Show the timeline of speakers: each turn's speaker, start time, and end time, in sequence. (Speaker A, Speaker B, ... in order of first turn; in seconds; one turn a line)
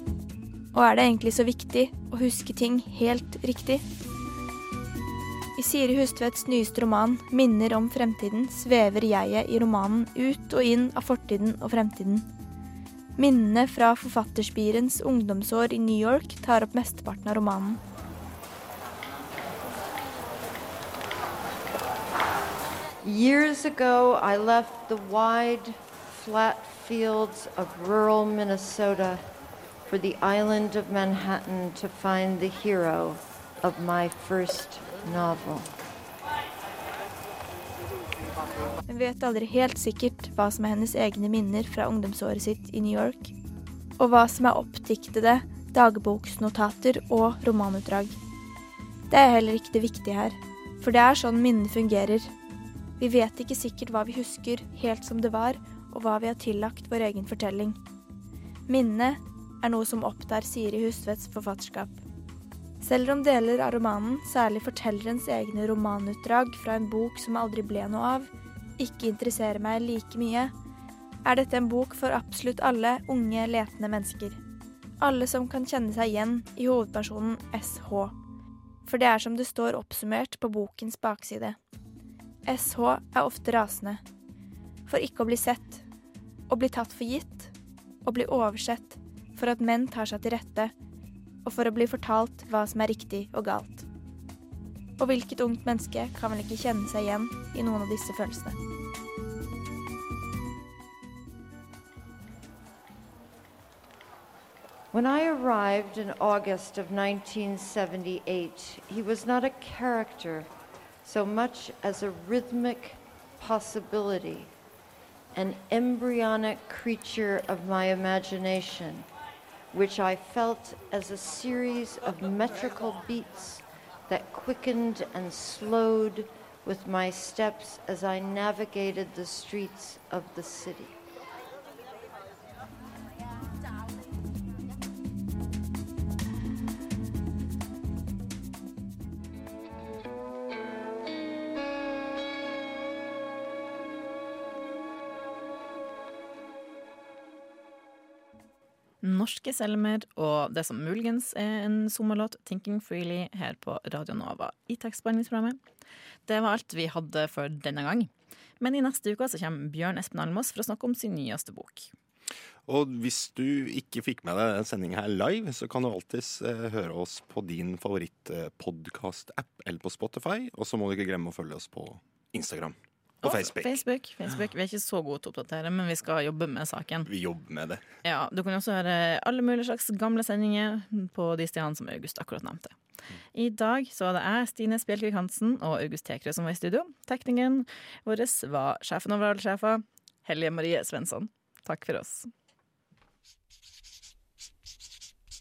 Speaker A: 0.7-3.8
Speaker A: 5.6-12.3
Speaker A: 13.2-17.8
Speaker B: 23.0-29.2
Speaker B: 29.9-35.7
Speaker A: 38.9-43.3
Speaker A: 44.0-48.2
Speaker A: 49.1-52.3
Speaker A: 53.0-57.8
Speaker A: 58.7-62.0
Speaker A: 62.8-70.5
Speaker A: 71.2-74.4
Speaker A: 75.0-78.1
Speaker A: 78.8-81.6
Speaker A: 82.5-84.0
Speaker A: 84.9-85.8
Speaker A: 86.5-87.5
Speaker A: 88.0-90.7
Speaker A: 91.5-93.8
Speaker A: 95.0-98.6
Speaker B: 104.9-110.5
Speaker B: 111.0-114.5
Speaker B: 115.3-119.1
Speaker B: 119.7-131.0
Speaker C: 149.0-155.6
Speaker C: 156.3-161.9
Speaker D: 162.7-173.8
Speaker C: 173.2-177.1
Speaker D: 177.1-177.8
Speaker C: 178.0-182.8
Speaker C: 183.3-192.3